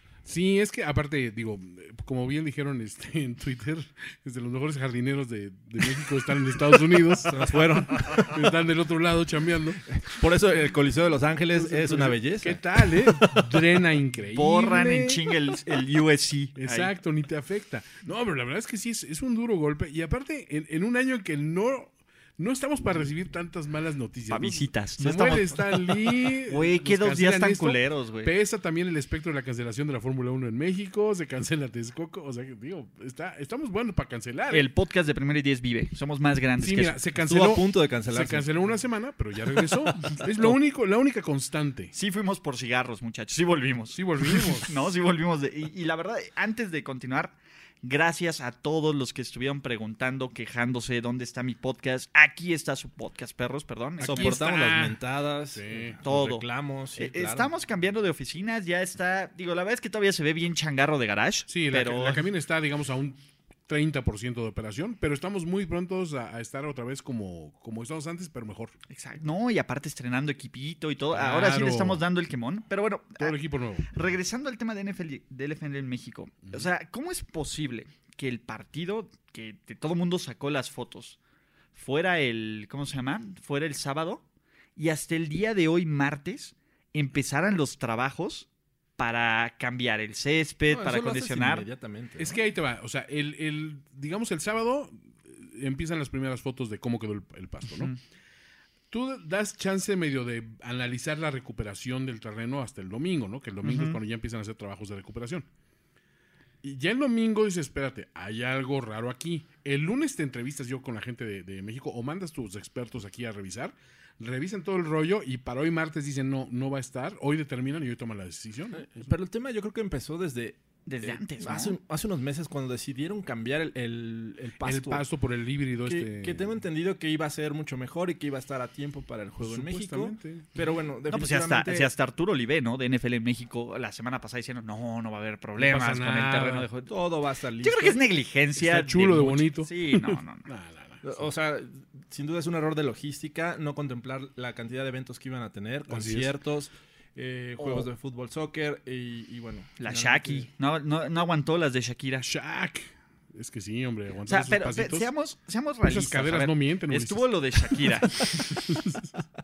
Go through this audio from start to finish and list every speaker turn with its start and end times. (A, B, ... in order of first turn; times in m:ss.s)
0:00.2-0:09.8 A
0:06.8-0:08.5 B
0:09.9-0:13.6 B
0:11.7-0:15.3 A
0:14.3-0:16.9 C
0:16.6-0:34.7 A
0:24.3-0:28.3 C
0:34.5-0:37.0 C
0:36.6-0:41.9 A
0:37.2-0:38.5 B
0:40.1-0:40.6 C
0:41.9-0:54.9 C
0:43.9-0:44.9 A
0:54.0-0:55.0 A
0:54.0-0:57.5 B
0:55.5-0:56.0 A
0:56.0-1:02.2 C
1:01.5-1:08.7 A
1:08.9-1:13.4 C
1:11.1-1:12.0 A
1:13.2-1:13.9 A
1:13.9-1:21.2 C
1:21.7-1:24.2 C
1:24.8-1:28.5 C
1:29.0-1:31.6 C
1:30.7-1:32.4 B
1:32.2-1:37.9 A
1:38.9-1:45.5 A
1:43.6-1:44.0 C
1:46.6-1:59.1 A
1:58.7-2:05.0 B
2:00.9-2:01.8 C
2:04.6-2:06.5 A
2:05.8-2:11.9 B
2:09.4-2:10.6 A
2:11.1-2:16.9 C
2:15.6-2:16.6 A
2:16.9-2:18.0 B
2:17.6-2:20.4 C
2:18.6-2:21.3 A
2:21.0-2:30.5 B
2:25.9-2:26.4 A
2:27.6-2:27.8 C
2:29.8-2:32.3 C
2:32.2-2:35.1 A
2:34.3-2:38.7 C
2:35.8-2:39.0 A